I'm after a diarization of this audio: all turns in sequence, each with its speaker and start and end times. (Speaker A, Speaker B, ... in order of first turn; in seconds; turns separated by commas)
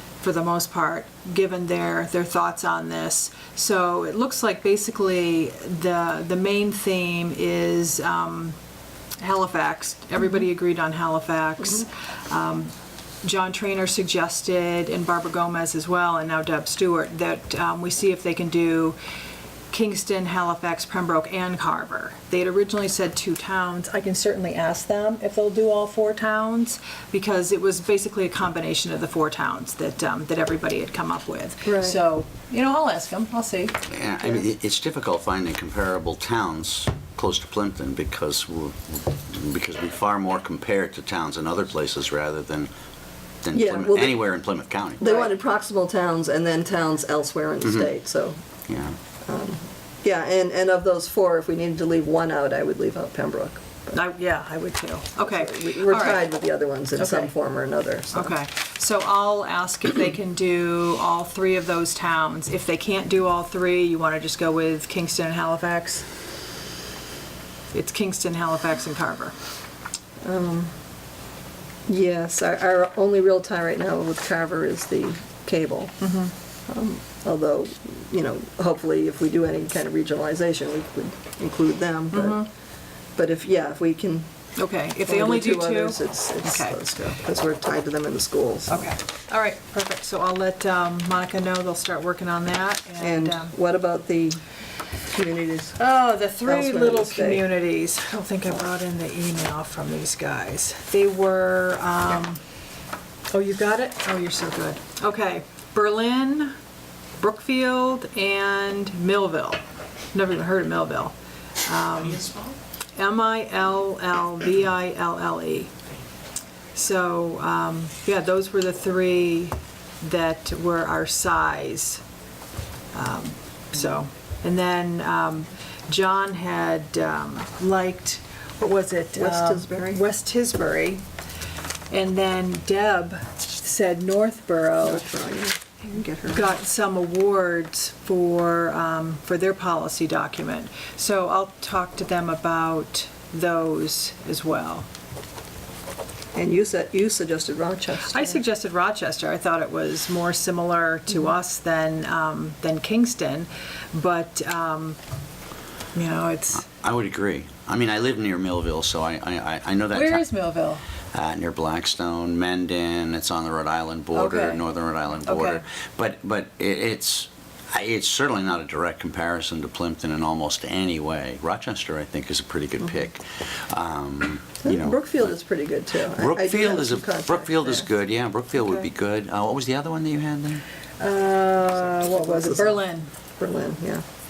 Speaker A: 0.2-8.6, Speaker A: 9.2-19.0, Speaker A: 19.7-34.4, Speaker B: 31.7-32.0, Speaker C: 33.9-42.7, Speaker C: 43.4-45.0, Speaker B: 43.5-44.3, Speaker B: 45.0-48.4, Speaker A: 45.0-45.3, Speaker C: 48.7-49.0, Speaker B: 49.3-54.0, Speaker A: 53.9-56.3, Speaker B: 55.2-58.3, Speaker A: 57.0-57.3, Speaker A: 58.1-66.1, Speaker A: 67.7-69.3, Speaker B: 70.2-70.8, Speaker B: 71.9-76.0, Speaker A: 76.0-76.3, Speaker B: 76.7-82.4, Speaker A: 82.1-82.5, Speaker B: 83.2-84.3, Speaker A: 84.6-86.8, Speaker B: 85.1-88.9, Speaker A: 88.7-93.5, Speaker B: 93.0-94.4, Speaker B: 95.1-95.8, Speaker A: 95.8-102.4, Speaker B: 96.5-97.4, Speaker A: 103.3-106.5, Speaker A: 107.2-109.6, Speaker A: 110.1-112.3, Speaker A: 113.0-115.7, Speaker A: 116.8-122.0, Speaker A: 122.9-131.0, Speaker B: 129.2-130.0, Speaker A: 131.9-135.1, Speaker B: 134.8-136.5, Speaker A: 136.3-144.9, Speaker B: 146.3-148.4, Speaker A: 148.1-155.0, Speaker A: 155.9-156.7, Speaker C: 156.7-160.3, Speaker A: 159.9-160.8, Speaker C: 161.1-175.4, Speaker A: 164.1-164.6, Speaker A: 165.3-165.6, Speaker B: 174.6-177.9, Speaker C: 176.1-180.6, Speaker A: 178.6-178.9, Speaker A: 181.0-183.1, Speaker B: 182.0-182.8, Speaker B: 183.4-184.0